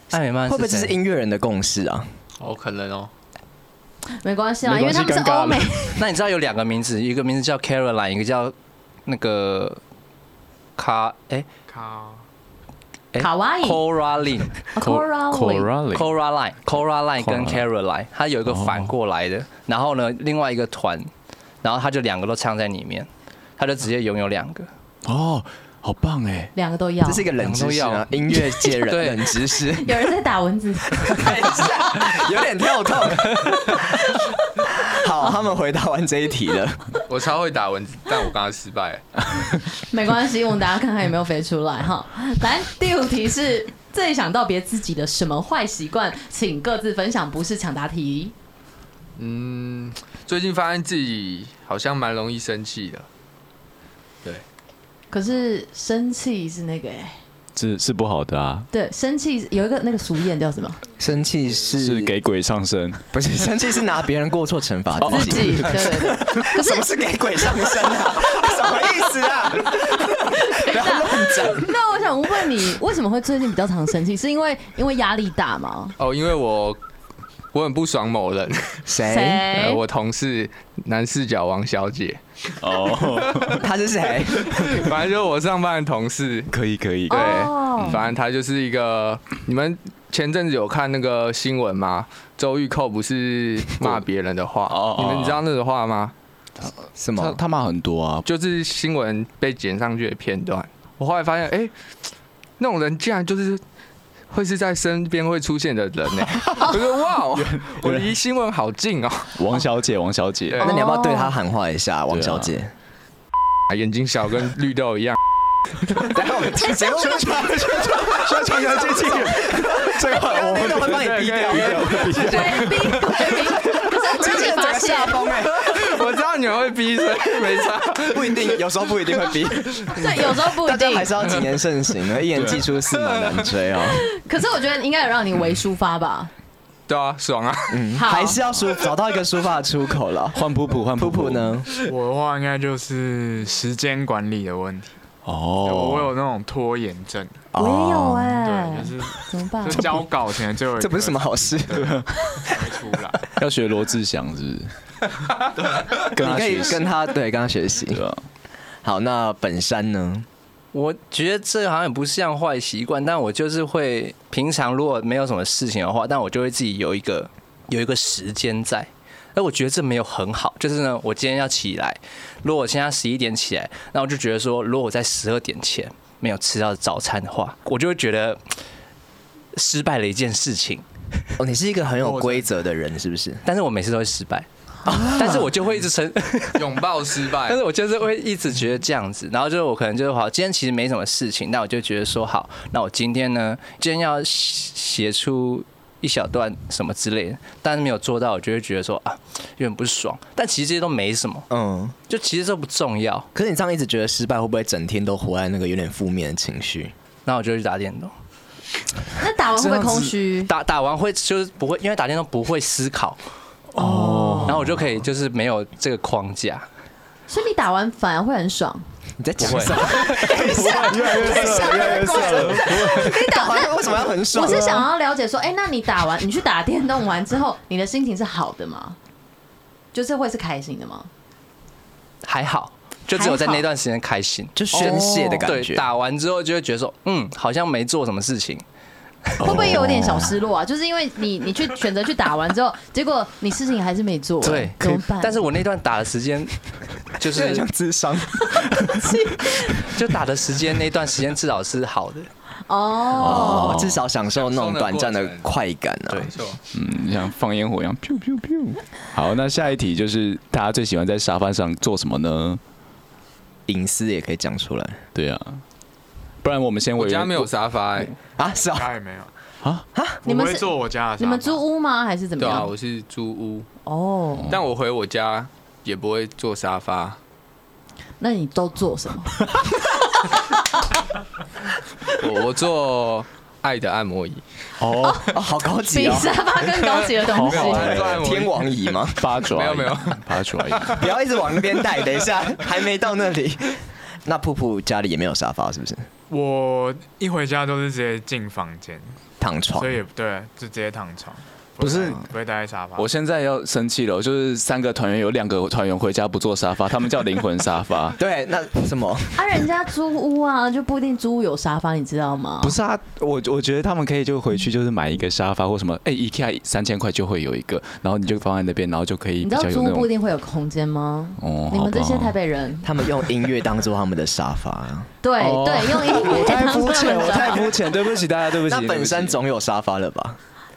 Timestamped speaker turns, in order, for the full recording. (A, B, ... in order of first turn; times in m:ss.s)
0:00.1-0:01.0 A
0:00.5-0:02.1 B
0:02.4-0:03.1 C
0:04.1-0:06.0 D
0:04.6-0:05.8 E
0:06.0-0:08.5 A
0:09.1-0:09.8 A
0:10.8-0:11.5 A
0:11.7-0:12.2 F
0:13.1-0:14.7 A
0:13.2-0:13.8 D
0:14.7-0:15.7 D
0:14.8-0:16.1 E
0:15.9-0:21.1 A
0:17.2-0:17.6 E
0:18.4-0:18.9 E
0:21.6-0:24.7 A
0:25.0-0:26.5 E
0:26.6-0:27.3 D
0:27.0-0:30.0 B
0:27.4-0:29.4 A
0:29.6-0:31.4 D
0:31.0-0:36.9 B
0:37.1-0:39.1 C
0:39.8-0:48.3 D
0:49.2-0:53.1 C
0:55.1-0:57.2 D
0:57.6-0:58.7 E
0:58.7-1:00.8 D
1:01.0-1:02.1 B
1:01.8-1:03.0 E
1:03.1-1:11.7 B
1:05.0-1:06.1 E
1:05.0-1:06.9 D
1:10.1-1:16.0 D
1:16.0-1:16.8 C
1:17.5-1:18.8 C
1:18.9-1:19.5 B
1:19.0-1:19.8 D
1:19.5-1:22.2 C
1:22.6-1:23.6 E
1:22.7-1:23.6 C
1:23.5-1:24.9 B
1:24.3-1:26.5 C
1:26.5-1:28.0 E
1:27.1-1:28.0 D
1:27.1-1:36.1 C
1:34.7-1:35.4 E
1:36.6-1:38.2 E
1:37.0-1:37.4 B
1:38.2-1:41.7 C
1:42.6-1:43.6 C
1:44.3-1:49.4 C
1:47.3-1:48.1 E
1:49.4-1:50.6 E
1:50.6-1:52.7 B
1:50.6-1:51.4 D
1:52.1-1:52.6 E
1:53.7-1:55.2 C
1:55.7-1:56.0 C
1:56.0-2:02.4 B
1:57.0-2:03.0 E
2:00.8-2:02.3 F
2:01.5-2:02.6 C
2:02.2-2:05.3 D
2:03.2-2:06.0 B
2:05.4-2:08.6 C
2:08.0-2:14.0 B
2:09.9-2:11.2 D
2:12.5-2:13.5 C
2:13.9-2:16.3 D
2:16.9-2:17.8 C
2:17.7-2:20.4 B
2:18.0-2:18.4 D
2:20.3-2:21.6 E
2:21.0-2:21.7 B
2:21.9-2:25.0 F
2:25.2-2:26.1 E
2:25.6-2:27.4 F
2:27.5-2:28.4 B
2:27.6-2:29.9 D
2:28.4-2:33.3 F
2:30.8-2:32.0 B
2:31.8-2:32.3 E
2:33.3-2:34.7 E
2:36.0-2:36.9 E
2:36.1-2:38.0 B
2:37.9-2:38.2 E
2:38.8-2:40.3 B
2:40.7-2:58.4 A
2:59.6-3:00.9 A
3:01.4-3:03.4 B
3:02.0-3:02.5 F
3:03.4-3:21.5 A
3:04.9-3:05.5 B
3:06.6-3:07.6 C
3:21.5-3:22.0 B
3:22.1-3:23.3 A
3:23.4-3:26.9 B
3:27.3-3:28.1 A
3:29.2-3:30.5 D
3:29.6-3:30.1 E
3:30.5-3:33.2 A
3:33.8-3:35.0 E
3:33.8-3:34.6 D
3:34.5-3:36.7 A
3:37.3-3:38.8 D
3:39.2-3:44.8 B
3:39.4-3:40.3 A
3:40.1-3:49.0 D
3:40.3-3:43.1 E
3:49.9-3:51.1 D
3:52.2-3:58.6 A
3:53.1-3:53.7 D
3:54.6-3:55.9 B
3:54.8-3:55.4 E
3:59.3-3:59.5 A
3:59.4-4:00.4 E
3:59.4-4:05.4 D
4:04.4-4:07.7 A
4:07.2-4:09.1 B
4:08.8-4:09.9 D
4:09.8-4:12.3 A
4:12.7-4:13.8 D
4:13.2-4:16.3 B
4:13.2-4:14.0 E
4:14.4-4:15.5 C
4:16.2-4:16.6 C
4:16.7-4:22.6 E
4:23.7-4:25.0 B
4:25.2-4:25.6 E
4:26.4-4:27.5 E
4:27.0-4:28.1 C
4:28.4-4:28.9 B
4:28.4-4:29.3 F
4:29.9-4:30.2 B
4:30.2-4:31.6 F
4:30.2-4:32.7 D
4:32.4-4:33.7 C
4:33.8-4:34.6 D
4:34.5-4:37.2 C
4:38.2-4:39.5 D
4:42.1-4:44.4 C
4:44.8-4:45.3 E
4:45.0-4:48.0 D
4:45.3-4:46.3 B
4:46.8-4:51.0 C
4:47.3-4:48.1 E
4:47.5-4:49.3 B
4:49.2-4:51.1 E
4:51.0-4:56.1 B
4:56.3-4:59.2 F
4:59.4-5:00.0 B
4:59.8-5:03.1 F
5:01.8-5:02.3 E
5:03.0-5:08.2 E
5:08.2-5:09.4 B
5:09.4-5:12.8 D
5:12.6-5:20.1 E
5:19.4-5:22.9 D
5:21.4-5:22.4 E
5:22.8-5:25.1 B
5:25.2-5:27.7 D
5:25.4-5:29.4 E
5:28.6-5:30.4 B